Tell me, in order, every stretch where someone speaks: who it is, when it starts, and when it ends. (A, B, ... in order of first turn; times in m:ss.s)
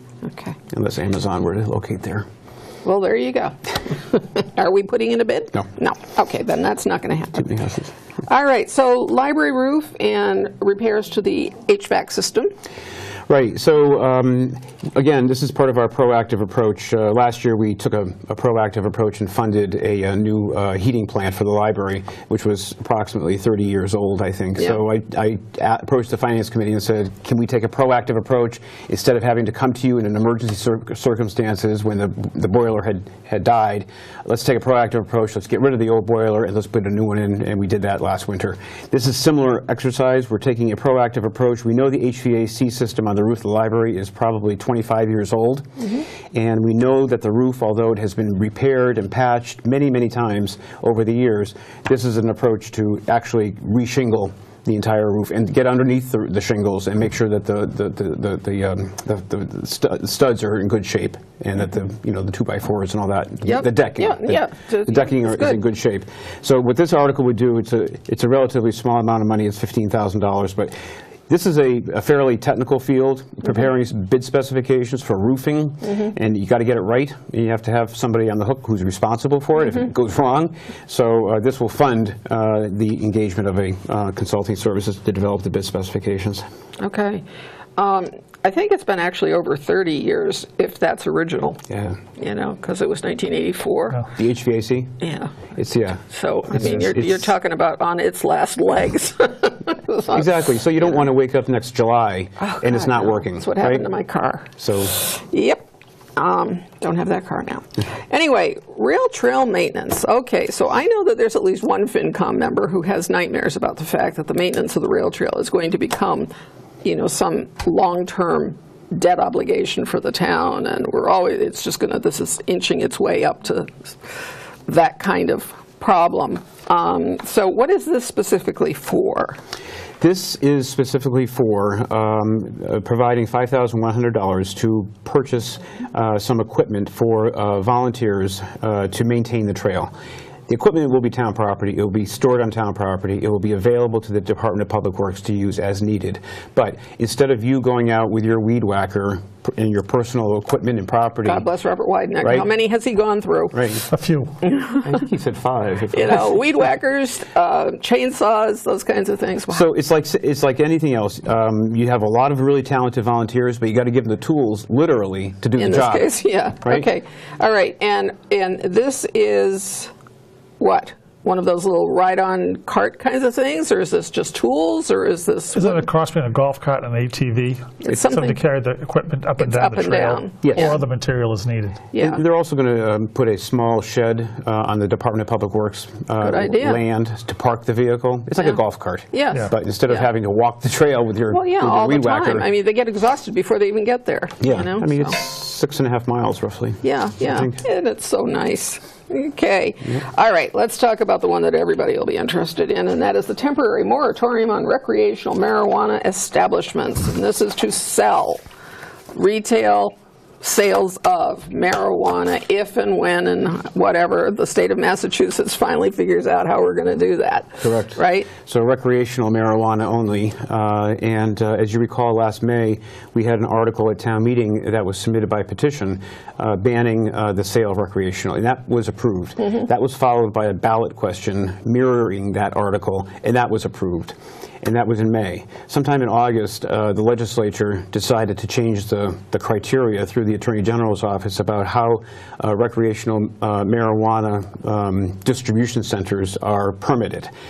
0:00.2-0:00.6 A
0:00.7-0:02.2 B
0:02.8-0:07.6 A
0:07.4-0:07.9 B
0:08.2-0:12.5 A
0:13.3-1:10.7 B
1:03.4-1:05.6 A
1:11.3-1:26.4 B
1:26.8-1:27.2 A
1:27.8-1:34.1 A
1:31.7-1:32.0 B
1:34.2-1:35.0 B
1:35.0-1:35.3 A
1:35.6-1:37.3 B
1:36.1-1:40.2 A
1:40.1-1:43.9 B
1:40.8-1:41.0 A
1:42.4-1:45.6 A
1:44.6-1:44.9 B
1:46.2-1:56.3 A
1:56.8-2:03.9 A
2:04.7-2:09.4 A
2:10.0-2:19.9 B
2:20.5-2:31.4 B
2:31.2-2:33.6 A
2:32.2-2:32.5 B
2:33.5-2:33.8 B
2:33.9-2:34.3 C
2:34.4-2:34.9 A
2:34.8-2:36.5 B
2:35.9-2:39.6 A
2:39.5-2:46.1 B
2:45.6-2:49.9 A
2:50.6-2:55.9 A
2:55.5-3:01.8 C
2:57.8-2:58.4 A
2:59.4-3:00.8 A
3:00.4-3:00.8 B
3:01.9-3:02.2 A
3:01.9-3:12.5 B
3:06.2-3:06.8 A
3:09.1-3:10.1 A
3:11.3-3:15.2 A
3:14.4-3:17.6 B
3:16.8-3:28.4 A
3:29.1-3:38.3 A
3:37.6-4:07.3 B